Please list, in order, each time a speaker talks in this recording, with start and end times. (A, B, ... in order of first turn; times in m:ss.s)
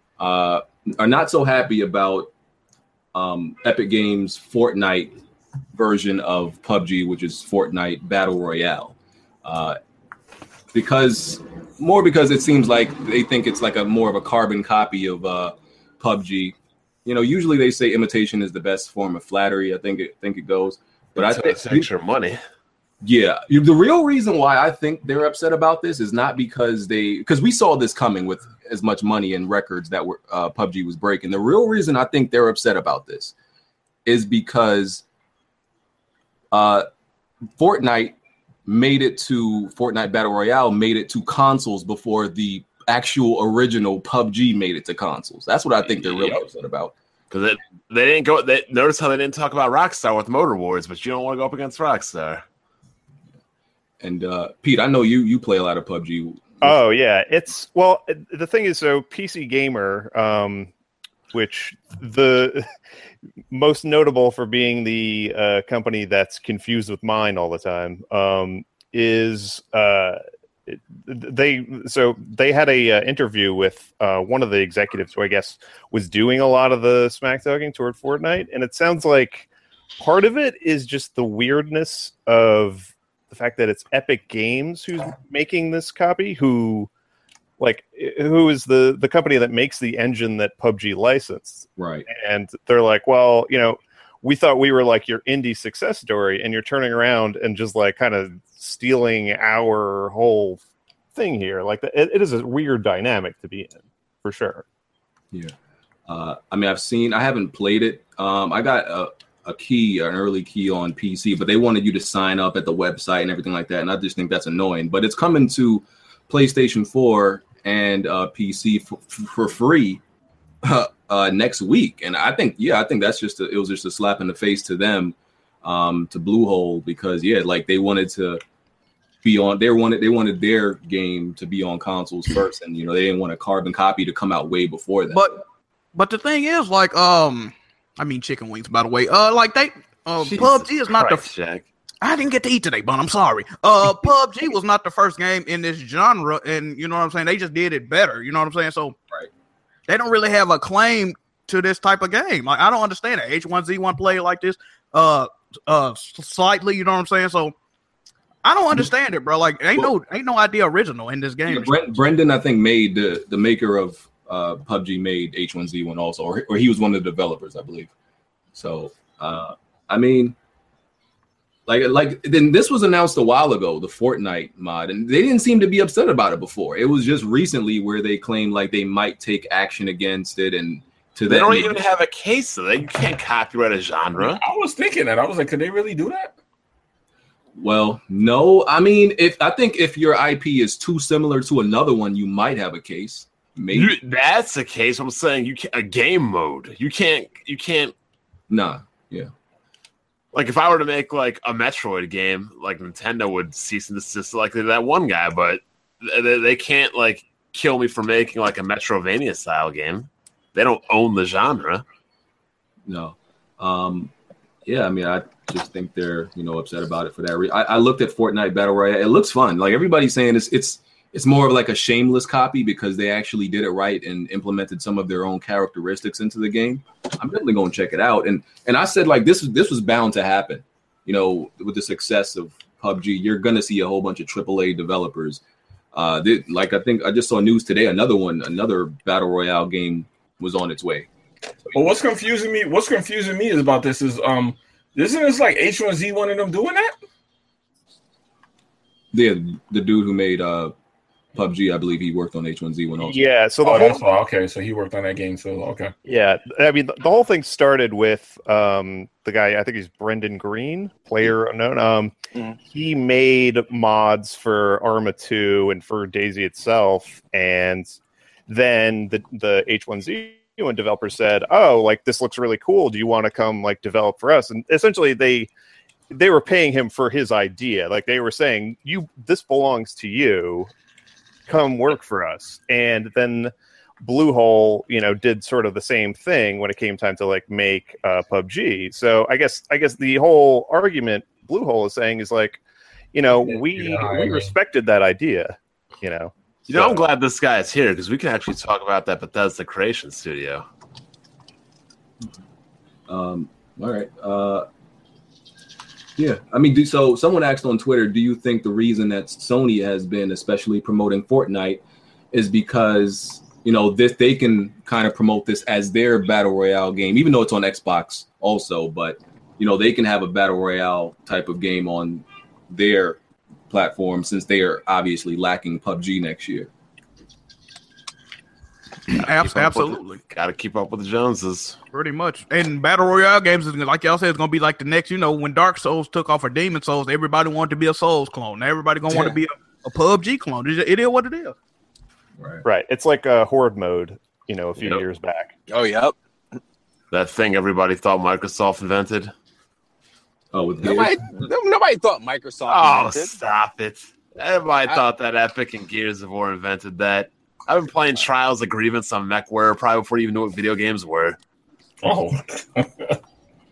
0:00.2-0:02.3 A
0:03.1-0:05.1 A
0:05.7-0:09.8 A
0:10.7-0:21.9 A
0:21.2-0:22.4 B
0:23.0-0:33.3 A
0:34.0-0:35.0 A
0:36.5-0:36.8 A
0:37.6-0:38.2 A
0:38.7-0:46.9 A
0:45.8-0:46.4 B
0:47.3-0:52.4 B
0:54.0-0:56.7 A
0:56.6-1:00.7 C
1:01.3-1:02.7 C
1:03.5-1:26.9 C
1:27.6-1:40.6 C
1:31.8-1:32.0 A
1:41.1-1:44.6 C
1:46.1-2:00.0 A
2:00.6-2:08.4 A
2:09.2-2:15.3 A
2:15.1-2:15.4 D
2:15.9-2:21.2 D
2:20.2-2:21.6 B
2:22.0-2:28.9 D
2:29.9-2:37.5 D
2:38.4-2:41.7 D
2:41.5-2:47.9 A
2:48.5-2:50.4 A
2:51.7-3:01.8 A
3:01.2-3:04.4 B
3:04.2-3:06.3 E
3:07.6-3:14.0 A
3:13.7-3:17.9 B
3:18.5-3:19.3 A
3:20.3-3:31.8 B
3:32.8-3:34.1 A
3:34.6-3:55.4 A
3:55.9-4:01.1 A
4:01.7-4:06.9 E
4:09.1-4:10.7 A
4:11.3-4:13.2 A
4:13.0-4:14.0 C
4:13.6-4:15.9 E
4:16.0-4:22.1 C
4:22.6-4:28.0 C
4:28.5-4:35.5 C
4:36.1-4:40.7 C
4:41.5-4:52.6 C
4:53.1-4:57.0 C
4:53.5-4:54.5 E
4:56.7-5:00.6 B
5:03.1-5:04.6 A
5:06.2-5:26.7 A
5:29.1-5:30.2 D
5:29.2-5:31.8 B
5:31.9-5:41.5 D
5:42.4-5:42.6 A
5:42.6-5:45.5 C
5:45.7-5:46.1 F
5:47.1-5:49.3 B
5:50.5-5:51.2 A
5:50.8-5:53.4 F
5:52.6-6:01.4 B
6:02.0-6:03.2 E